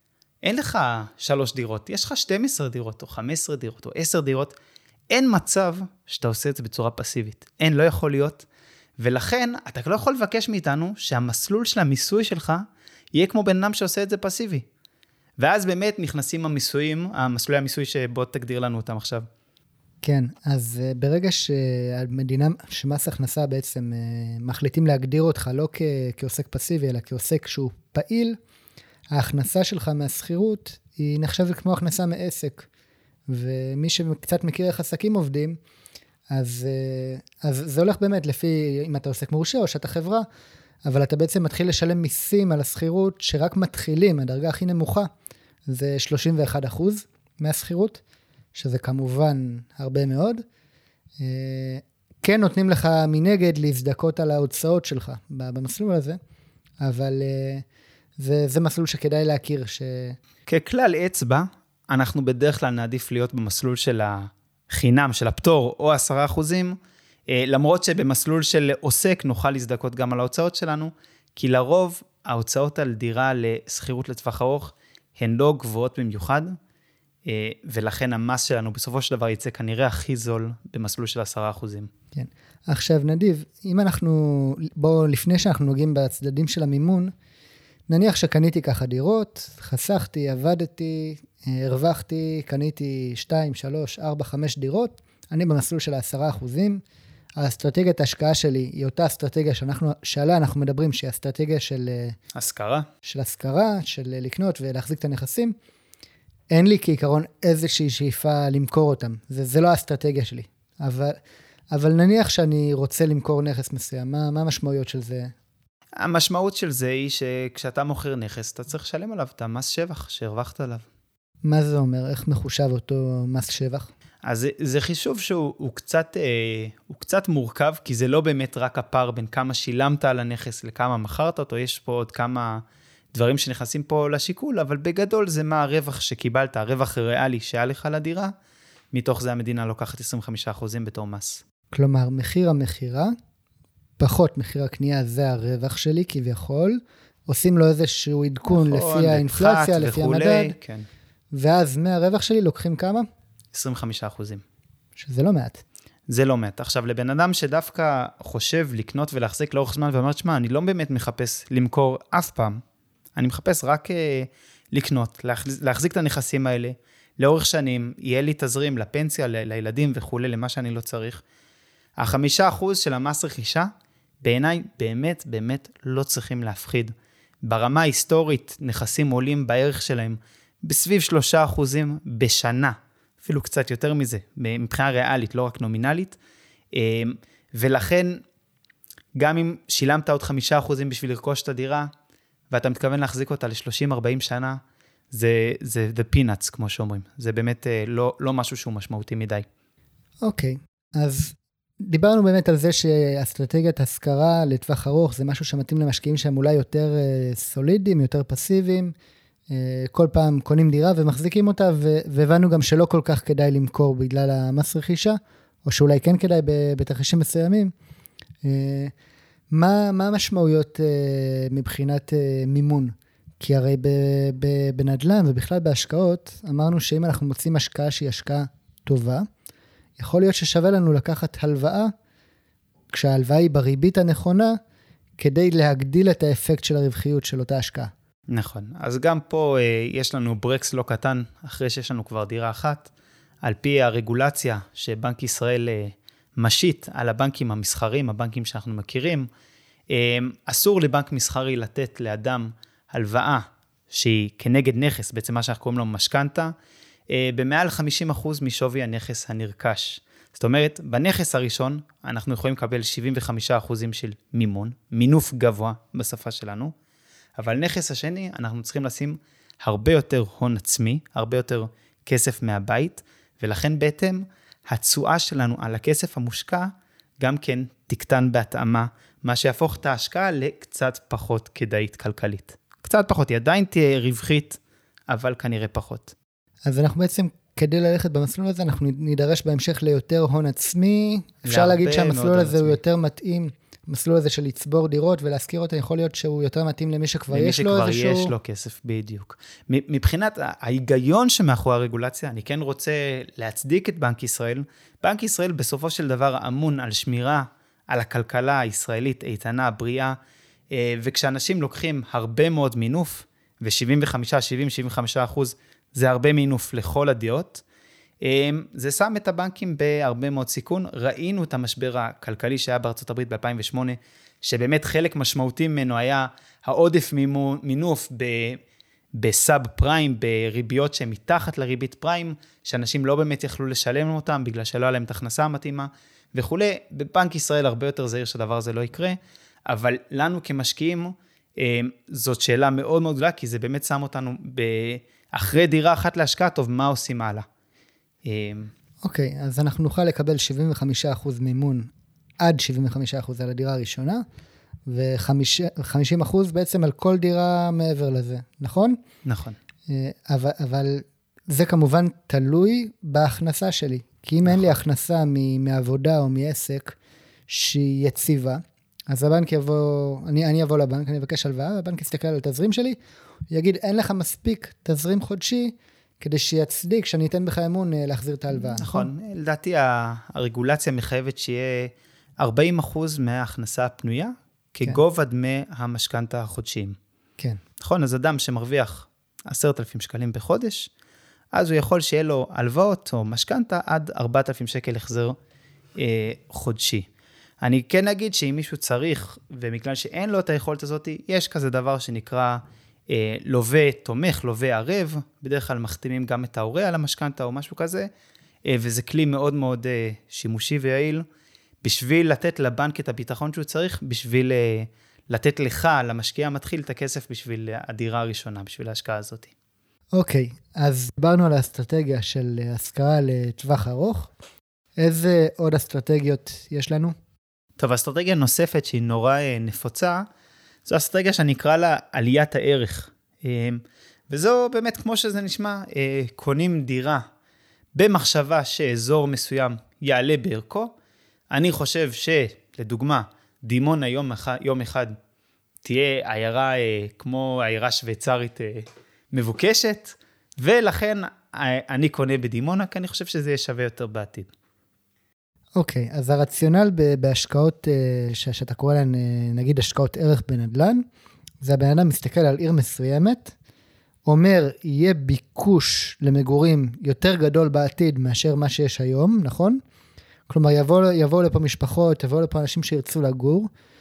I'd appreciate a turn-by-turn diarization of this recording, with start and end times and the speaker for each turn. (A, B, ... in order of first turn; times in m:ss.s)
0:00.4-0:04.6 A
0:05.1-0:08.5 A
0:09.0-0:14.6 A
0:15.4-0:19.3 A
0:20.0-0:28.4 B
0:29.1-0:32.7 B
0:33.3-0:35.6 B
0:36.3-0:40.2 B
0:40.8-0:45.1 B
0:45.7-0:48.0 B
0:48.6-0:50.4 B
0:51.2-0:56.2 B
0:56.8-0:57.6 B
0:58.2-1:00.2 B
1:00.5-1:06.8 A
1:07.3-1:16.6 A
1:17.2-1:21.9 A
1:22.2-1:27.1 B
1:27.9-1:36.8 B
1:37.4-1:42.2 B
1:42.3-1:42.9 A
1:43.0-1:45.6 B
1:46.5-1:51.2 B
1:51.7-1:55.3 B
1:56.0-2:00.9 A
2:01.4-2:03.9 B
2:04.2-2:18.3 A
2:18.9-2:21.4 A
2:21.7-2:23.1 B
2:24.0-2:30.6 B
2:28.5-2:30.9 A
2:31.3-2:33.1 B
2:33.5-2:34.4 A
2:35.0-2:35.6 B
2:36.1-2:42.6 A
2:43.2-2:51.2 A
2:52.0-2:53.7 A
2:54.2-2:56.9 A
2:57.4-3:06.2 A
3:06.7-3:08.2 A
3:09.2-3:11.9 A
3:12.5-3:14.6 A
3:15.1-3:19.5 A
3:20.2-3:28.9 B
3:29.5-3:37.7 B
3:38.4-3:38.9 B
3:39.5-3:49.3 B
3:50.0-3:51.9 B
3:52.9-3:54.6 B
3:55.2-3:57.9 B
3:58.3-4:02.9 A
4:03.4-4:09.3 A
4:09.9-4:16.5 A
4:17.1-4:26.7 A
4:27.4-4:46.1 A
4:46.7-4:58.3 B
4:51.4-4:52.8 A
4:57.3-5:10.2 A
5:10.7-5:17.6 A
5:18.2-5:28.6 A
5:29.2-5:47.5 A
5:48.2-5:48.7 A
5:49.0-5:54.2 B
5:54.9-5:59.0 B
5:59.2-5:59.6 A
5:59.9-6:07.0 B
6:07.5-6:13.0 B
6:13.5-6:19.1 B
6:18.5-6:27.0 A
6:27.8-6:30.9 A
6:31.5-6:35.4 A
6:36.0-6:37.1 A
6:37.6-6:48.1 A
6:48.6-6:51.2 A
6:51.8-6:59.5 A
7:00.2-7:04.3 B
7:05.0-7:07.2 B
7:07.8-7:10.2 A
7:10.9-7:17.2 A
7:18.0-7:20.9 A
7:21.5-7:25.2 A
7:25.8-7:34.5 A
7:35.8-7:41.0 B
7:41.6-7:43.5 B
7:44.3-7:49.8 B
7:50.5-7:53.7 B